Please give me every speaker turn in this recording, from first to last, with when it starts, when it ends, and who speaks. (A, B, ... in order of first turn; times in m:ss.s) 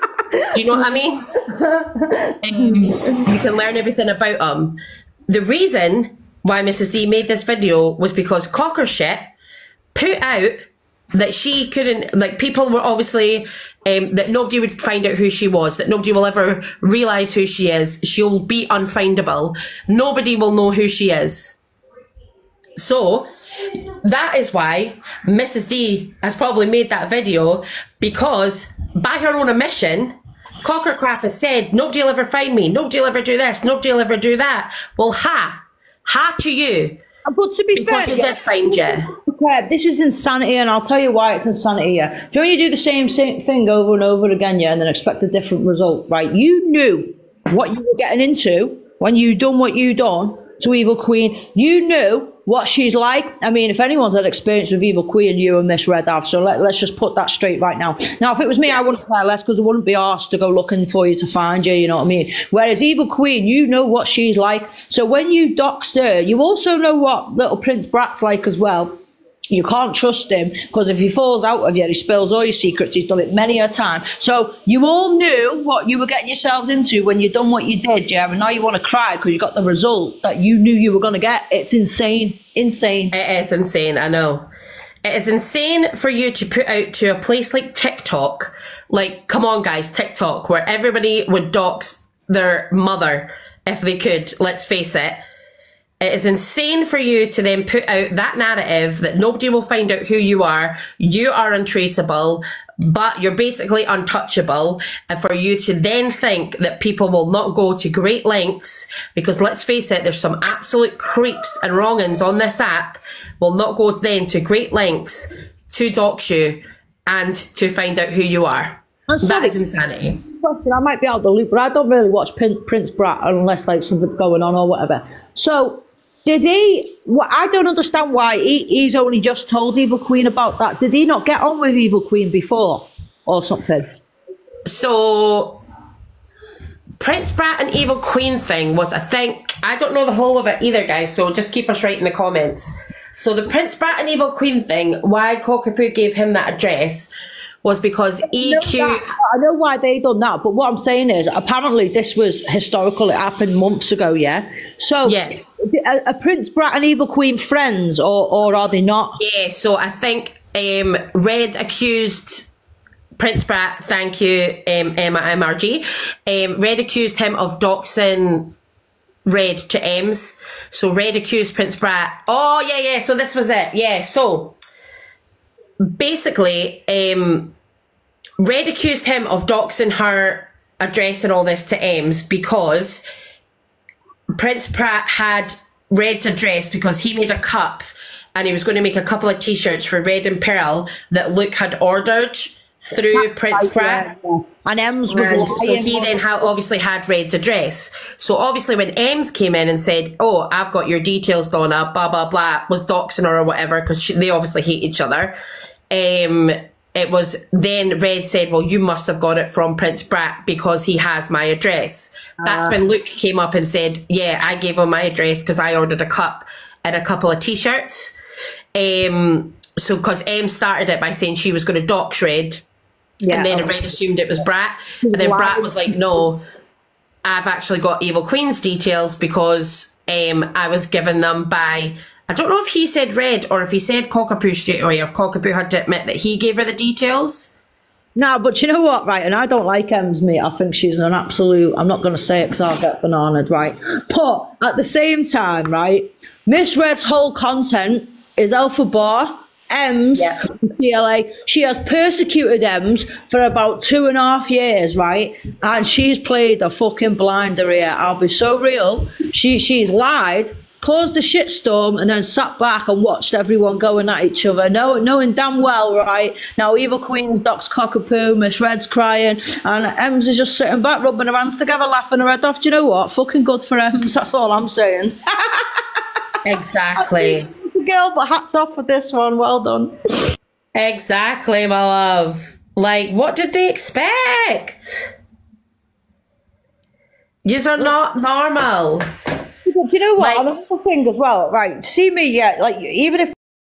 0:00.5-0:01.2 A
0:01.5-0:03.2 B
0:02.4-0:09.3 A
0:09.9-0:21.6 A
0:22.8-0:37.0 A
0:37.3-1:09.0 B
0:37.7-0:39.1 A
1:09.5-1:23.1 B
1:23.1-1:24.5 A
1:25.0-1:35.2 A
1:36.0-2:00.2 A
1:59.1-1:59.6 B
2:00.2-2:13.9 B
2:14.6-2:15.6 A
2:17.0-2:27.1 A
2:27.6-2:29.1 A
2:28.2-2:39.2 B
2:35.0-2:35.4 A
2:39.2-2:42.5 A
2:43.2-2:48.5 A
2:49.2-2:54.6 A
2:55.9-2:57.5 A
2:58.4-3:03.0 A
3:04.4-3:14.0 A
3:13.1-3:16.2 B
3:15.1-3:25.3 A
3:25.9-3:38.1 A
3:32.4-3:32.8 B
3:38.7-3:42.6 A
3:43.2-3:43.7 B
3:43.3-3:46.4 A
3:45.0-3:46.1 B
3:47.2-3:57.5 A
3:58.2-4:35.8 B
4:36.4-4:37.5 A
4:37.0-4:39.9 B
4:40.7-4:45.1 A
4:47.4-4:49.0 A
4:49.6-4:53.3 B
4:50.2-4:50.5 A